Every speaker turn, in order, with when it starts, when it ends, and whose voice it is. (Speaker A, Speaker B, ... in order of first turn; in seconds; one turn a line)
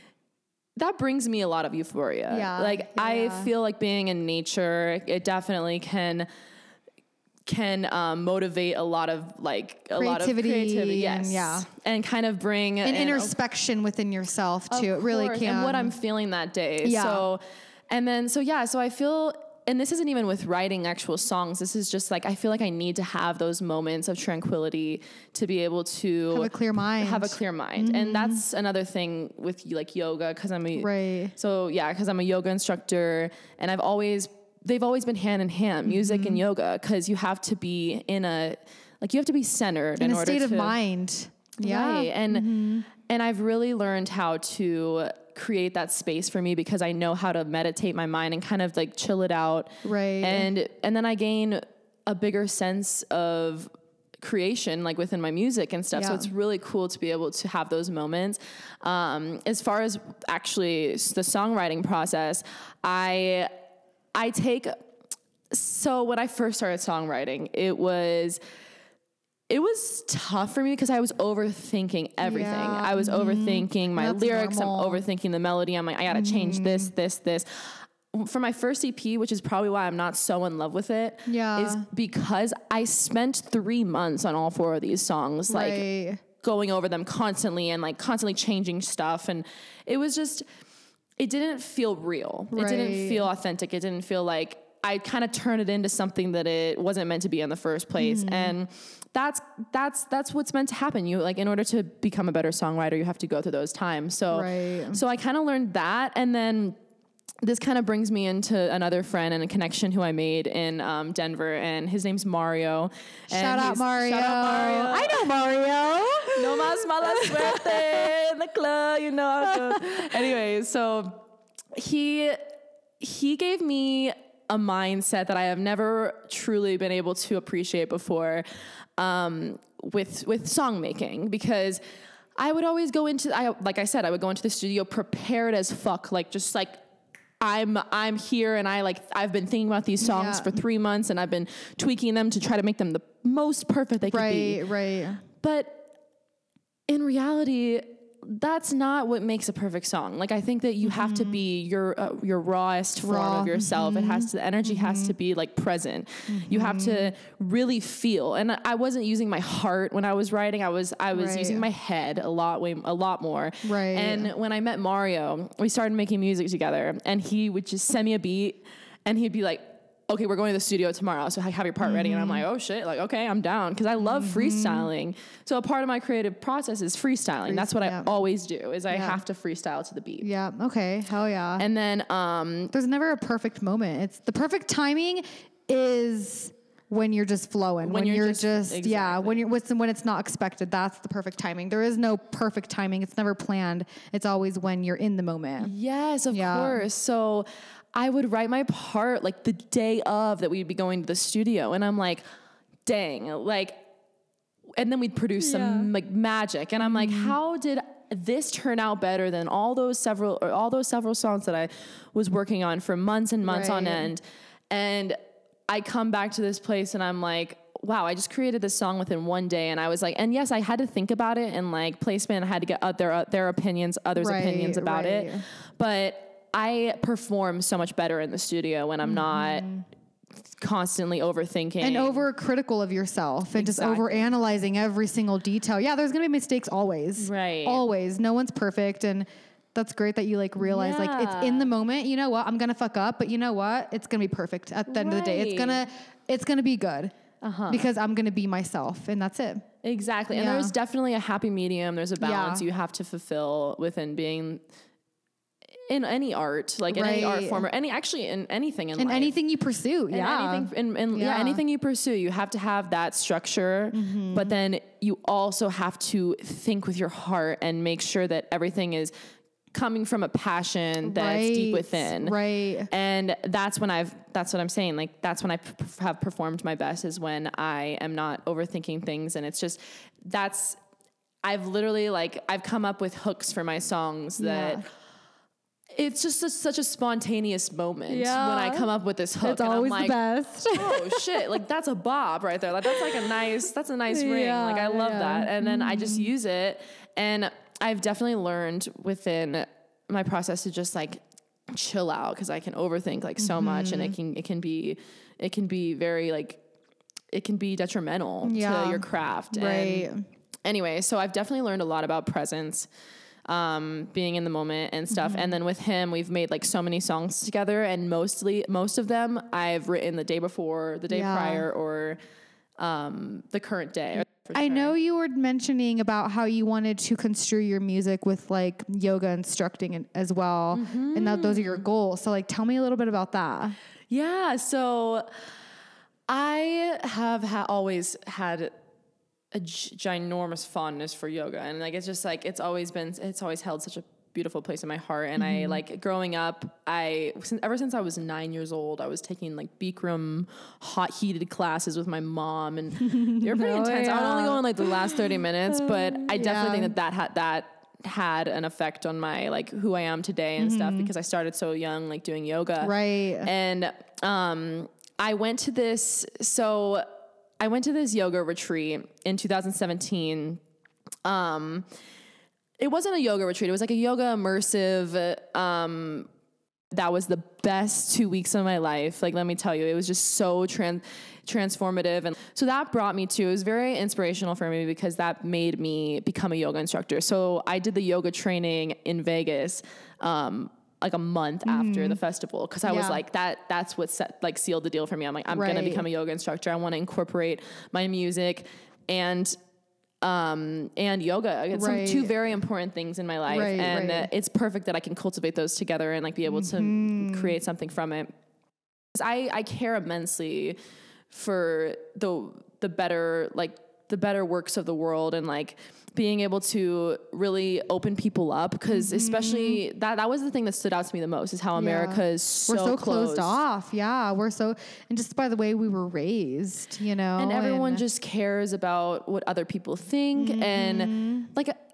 Speaker A: 0.8-6.3
Speaker B: 2.3-3.5
Speaker A: 7.5-13.3
Speaker B: 9.9-11.7
Speaker B: 12.8-15.9
Speaker A: 14.7-40.8
Speaker B: 16.8-17.3
Speaker B: 26.3-28.4
Speaker B: 30.8-31.3
Speaker B: 35.9-36.4
Speaker B: 40.0-42.9
Speaker A: 41.6-49.7
Speaker B: 49.8-50.5
Speaker A: 50.2-63.5
Speaker B: 55.9-56.3
Speaker A: 64.2-64.9
Speaker A: 65.5-68.4
Speaker A: 69.5-85.9
Speaker B: 72.2-75.0
Speaker B: 76.1-76.9
Speaker B: 81.3-81.9
Speaker B: 85.5-86.2
Speaker A: 86.4-90.5
Speaker A: 91.2-106.8
Speaker B: 92.5-93.3
Speaker B: 98.0-98.6
Speaker B: 104.3-105.0
Speaker A: 107.4-115.3
Speaker B: 113.3-118.1
Speaker A: 116.3-121.2
Speaker B: 119.4-120.2
Speaker A: 121.7-128.5
Speaker A: 129.0-131.8
Speaker A: 132.4-136.8
Speaker A: 137.4-144.6
Speaker B: 140.0-140.6
Speaker B: 144.1-145.2
Speaker A: 145.4-145.9
Speaker A: 146.9-180.3
Speaker B: 150.8-151.4
Speaker B: 153.0-155.1
Speaker B: 156.3-157.1
Speaker B: 161.1-161.7
Speaker B: 163.6-164.3
Speaker B: 171.8-172.4
Speaker B: 174.0-174.9
Speaker B: 177.4-178.1
Speaker B: 178.9-179.2
Speaker B: 180.2-181.7
Speaker A: 181.6-182.7
Speaker B: 182.7-195.7
Speaker A: 187.8-189.5
Speaker A: 195.6-202.2
Speaker B: 196.3-196.8
Speaker A: 202.8-203.9
Speaker A: 204.8-229.7
Speaker B: 205.4-205.9
Speaker B: 206.8-207.4
Speaker B: 213.4-214.1
Speaker B: 224.2-225.4
Speaker B: 229.0-229.8
Speaker A: 230.4-232.3
Speaker B: 231.8-247.1
Speaker A: 233.5-234.3
Speaker A: 237.2-237.8
Speaker A: 240.6-241.7
Speaker A: 244.9-245.8
Speaker A: 247.4-247.9
Speaker B: 247.7-249.7
Speaker A: 249.8-254.6
Speaker B: 250.3-250.7
Speaker B: 252.2-252.7
Speaker A: 255.9-259.3
Speaker B: 256.9-257.7
Speaker B: 259.0-261.6
Speaker A: 260.1-269.1
Speaker B: 263.9-264.6
Speaker A: 269.7-272.4
Speaker B: 271.0-272.9
Speaker A: 272.9-280.8
Speaker A: 281.4-284.9
Speaker B: 284.4-284.9
Speaker A: 285.9-290.2
Speaker B: 288.1-288.9
Speaker B: 289.4-291.6
Speaker A: 290.7-306.6
Speaker B: 292.9-293.2
Speaker B: 294.1-296.3
Speaker B: 303.4-304.1
Speaker A: 307.3-310.1
Speaker B: 308.4-310.2
Speaker A: 310.6-312.9
Speaker A: 313.5-322.2
Speaker B: 315.1-315.6
Speaker B: 321.1-321.7
Speaker A: 322.8-324.9
Speaker B: 324.6-333.8
Speaker A: 330.7-331.9
Speaker A: 334.1-335.3
Speaker A: 336.3-338.7
Speaker A: 339.5-370.6
Speaker B: 345.4-345.8
Speaker B: 353.0-356.9
Speaker B: 360.6-361.1
Speaker B: 362.8-363.5
Speaker A: 371.2-371.9
Speaker A: 372.8-376.3
Speaker A: 376.9-399.6
Speaker B: 391.6-392.2
Speaker B: 392.9-393.2
Speaker B: 395.5-396.1
Speaker A: 400.2-408.3
Speaker B: 401.8-402.4
Speaker B: 403.5-404.3
Speaker B: 406.5-407.6
Speaker A: 409.1-410.8
Speaker A: 411.3-423.6
Speaker B: 418.9-419.8
Speaker B: 421.8-428.0
Speaker A: 427.4-431.8
Speaker B: 430.4-431.5